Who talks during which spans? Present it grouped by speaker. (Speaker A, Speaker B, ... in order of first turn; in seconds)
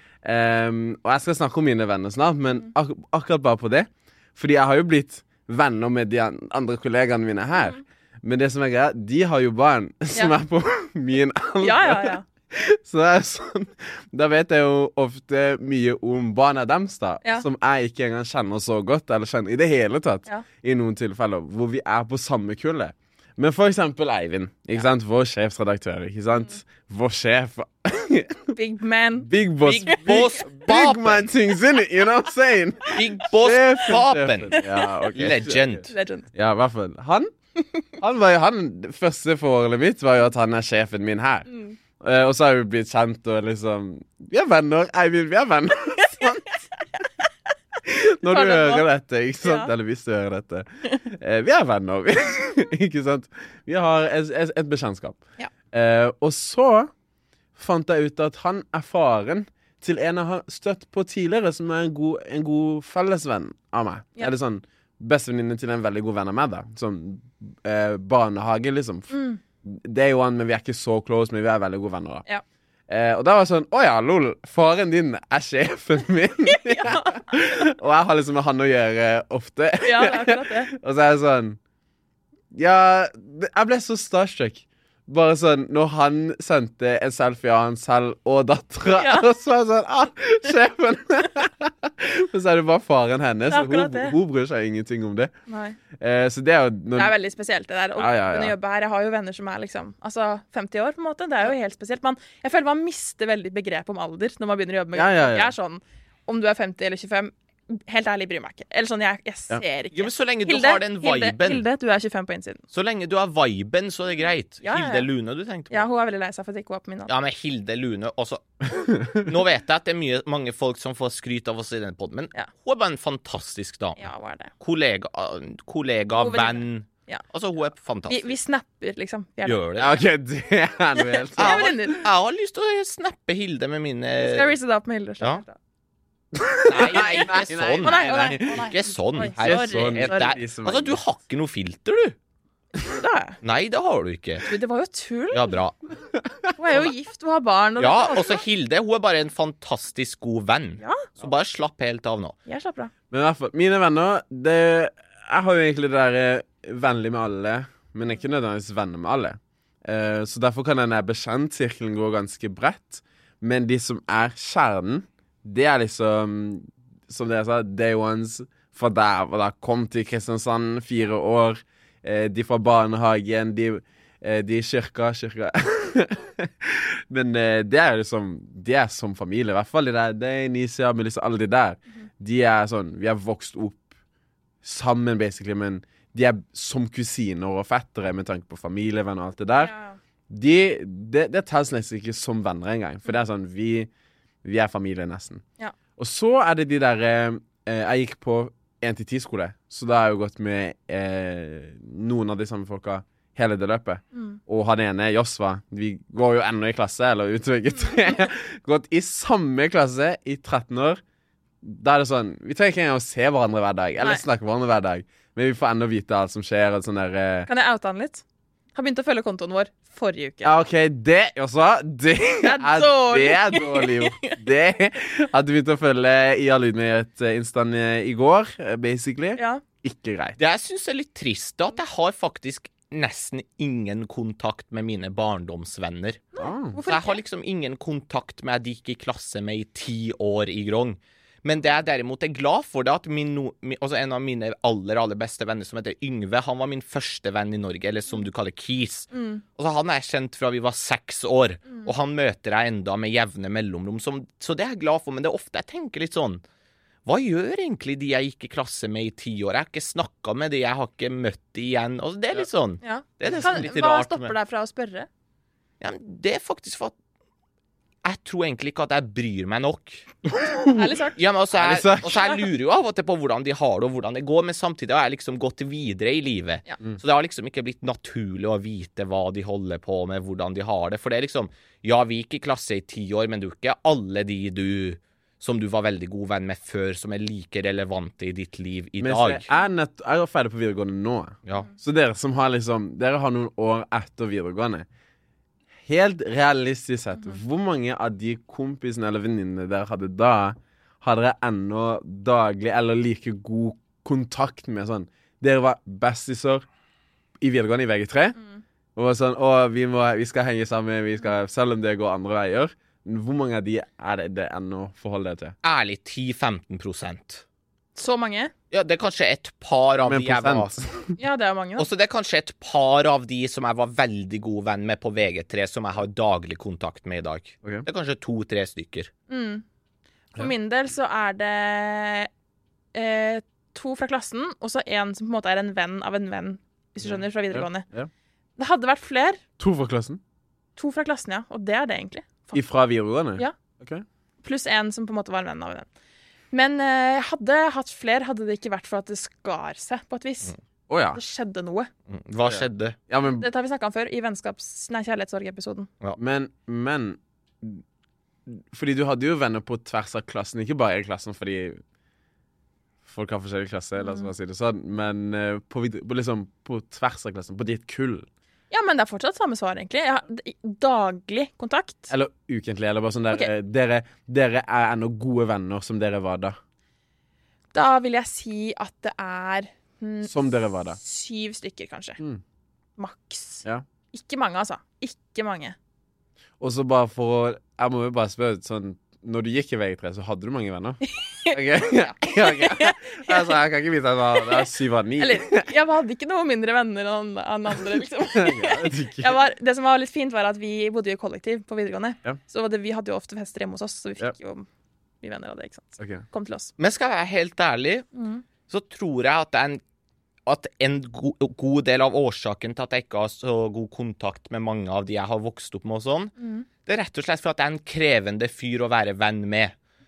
Speaker A: 0.2-28.6, 29.2-37.3, 38.0-41.5, 42.0-46.5, 47.8-55.2, 55.7-56.9, 57.6-72.2, 72.9-81.6, 82.5-95.3, 96.0-97.2, 98.0-98.5, 105.0-105.5, 129.8-131.8, 136.3-141.0, 146.1-146.5, 153.1-183.8, 184.6-189.7, 190.3-193.9, 194.4-195.4, 196.0-211.0, 211.6-217.5, 220.4-230.4, 236.4-236.8, 263.3-263.6, 270.2-271.0, 271.6-272.4, 289.0-294.9, 295.9-306.7, 307.4-308.4, 309.0-315.5, 320.1-321.1, 337.0-338.1, 339.6-340.2, 342.5-344.0, 350.9-351.2, 352.5-353.5, 356.2-357.8, 358.5-361.8, 363.1-368.3, 372.1-376.6, 380.2-381.0, 386.6-391.0, 391.5-395.7, 398.3-399.4, 406.0-406.2
Speaker B: 11.6-12.3, 28.5-29.3, 29.9-30.4, 34.5-34.8, 35.9-36.3, 41.5-41.8, 48.3-48.9, 49.4-49.7, 69.1-69.4, 76.5-77.2, 79.8-80.7, 89.0-89.3, 93.5-94.2, 95.5-95.8, 97.0-112.6, 114.6-115.1, 115.7-117.1, 124.0-124.5, 126.2-127.2, 128.1-129.7, 131.0-132.1, 134.2-135.6, 136.8-137.3, 137.8-140.3, 142.8-143.4, 144.4-145.6, 146.6-148.4, 150.8-151.1, 152.5-152.9, 189.6-190.0, 217.5-218.2, 218.8-220.5, 222.4-224.3, 229.4-229.6, 236.4-237.2, 249.1-249.4, 262.8-265.1, 270.7-271.2, 318.0-318.5, 321.2-321.9, 329.3-329.6, 330.3-332.3, 332.9-337.9, 338.6-339.4, 340.8-342.6, 344.4-345.9, 346.5-350.5, 351.1-351.9, 353.2-355.9, 364.0-364.3, 368.7-372.1, 377.7-382.2, 383.0-385.8, 391.1-393.6, 394.4-394.7, 395.2-404.7, 405.2-406.7, 408.1-408.4, 416.4-416.7
Speaker C: 29.6-31.3, 32.9-34.6, 35.1-35.9, 109.9-111.7, 112.7-115.9, 117.1-128.3, 129.4-130.0, 131.4-134.5, 136.7-142.2, 143.4-144.5, 145.3-145.8, 147.8-152.3, 230.4-256.4, 257.1-264.3, 265.8-266.9, 268.0-270.1, 271.2-289.5, 315.6-317.4, 318.7-320.7, 321.8-329.1, 352.1-353.0, 406.8-408.1, 408.7-409.8, 410.5-419.8